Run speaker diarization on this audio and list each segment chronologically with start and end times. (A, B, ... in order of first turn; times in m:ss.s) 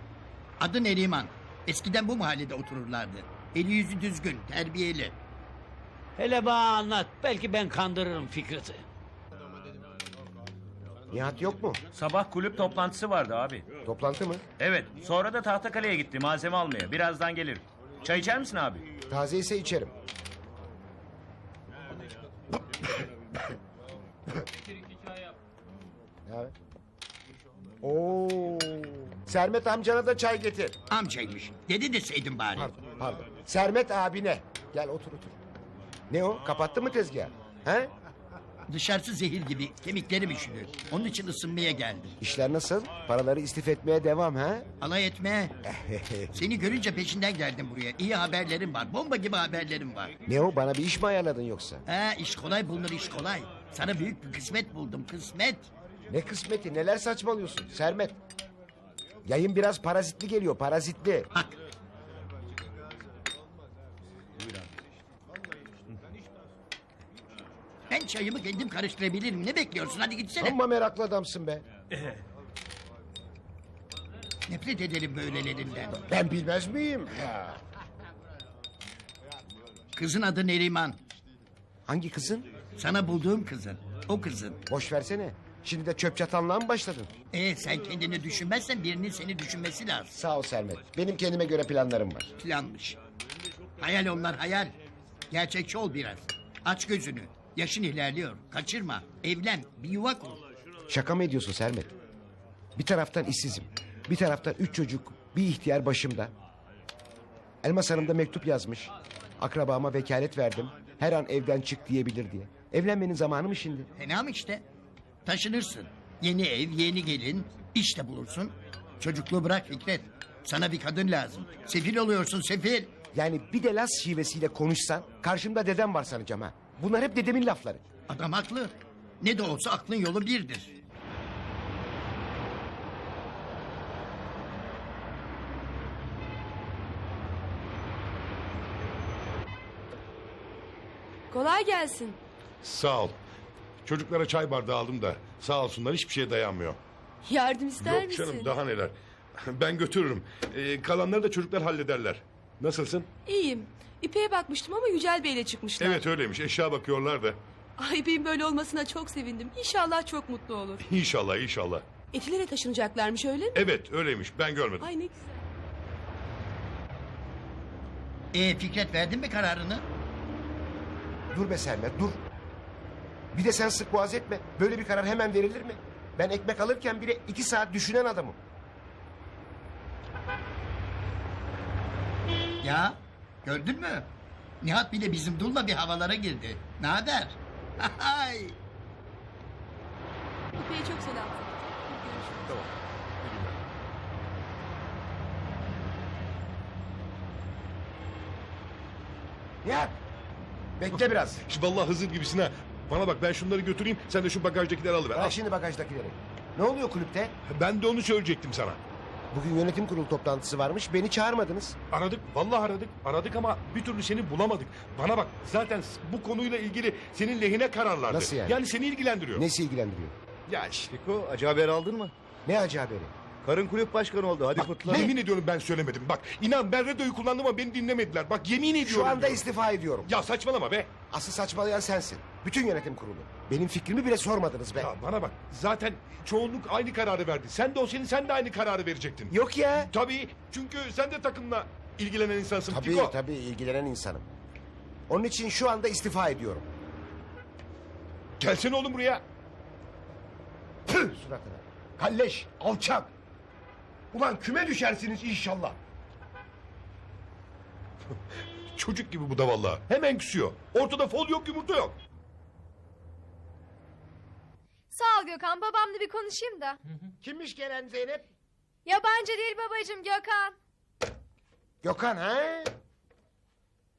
0:00.6-0:05.2 A
0:06.2-0:08.8 B
0:11.1-0:11.8 C
0:12.0-0:13.6 D
0:13.8-0:14.4 C
0:14.6-0:18.8 D
0:19.1-0:19.9 C
0:26.3-0:26.5 C
0:27.8-0:30.8 C
0:30.9-0:32.7 A
0:32.6-0:35.4 C
0:36.1-0:37.9 C
0:38.7-0:42.2 A
0:42.2-0:44.7 C
0:44.8-0:45.6 A
0:45.7-0:46.3 C
0:46.3-0:50.1 A
0:50.3-0:51.8 C
0:51.9-0:55.7 A
0:56.1-0:58.2 C
0:59.3-1:01.3 C
1:04.4-1:04.7 D
1:07.9-1:10.6 A
1:10.4-1:11.6 C
1:14.5-1:16.0 A
1:16.0-1:17.5 C
1:20.0-1:21.0 A
1:21.9-1:22.6 C
1:22.8-1:24.6 A
1:24.7-1:27.1 C
1:27.3-1:30.2 A
1:30.1-1:32.3 C
1:32.4-1:33.0 A
1:33.8-1:34.8 A
1:35.3-1:40.4 A
1:40.9-1:41.9 C
1:42.8-1:46.3 C
1:47.6-1:53.9 C
1:54.0-1:54.6 A
1:55.3-2:02.9 A
2:03.1-2:07.8 C
2:08.1-2:10.7 A
2:21.3-2:22.2 E
2:22.6-2:23.2 F
2:23.8-2:26.8 F
2:27.2-2:28.5 E
2:27.8-2:33.1 F
2:33.2-2:36.0 E
2:35.8-2:37.4 F
2:37.8-2:40.8 E
2:40.8-2:41.9 F
2:42.1-2:43.6 E
2:43.5-2:44.9 F
2:44.8-2:45.4 E
2:48.3-2:49.8 A
2:51.3-2:52.2 C
2:53.3-2:58.4 C
3:02.6-3:04.1 A
3:04.6-3:08.6 A
3:10.6-3:12.2 E
3:12.2-3:13.6 F
3:19.6-3:19.9 C
3:20.8-3:21.4 C
3:21.5-3:25.4 F
3:25.1-3:27.4 C
3:27.5-3:28.8 F
3:29.3-3:31.8 C
3:31.9-3:39.5 F
3:38.1-3:38.6 C
3:39.3-3:40.1 C
3:40.5-3:40.9 F
3:40.9-3:42.1 G
3:42.5-3:43.1 C
3:43.4-3:45.1 G
3:44.6-3:49.5 F
3:44.9-3:45.1 C
3:48.8-3:50.1 C
3:50.0-3:50.9 F
3:51.1-3:54.9 C
3:54.8-3:59.3 F
3:59.3-3:59.9 C
3:59.9-4:03.1 F
4:02.7-4:04.2 C
4:05.1-4:06.7 C
4:08.4-4:09.2 F
4:10.9-4:13.1 C
4:14.1-4:15.8 C
4:18.8-4:22.0 F
4:24.9-4:26.8 H
4:27.2-4:28.2 C
4:28.9-4:30.6 H
4:31.8-4:32.7 C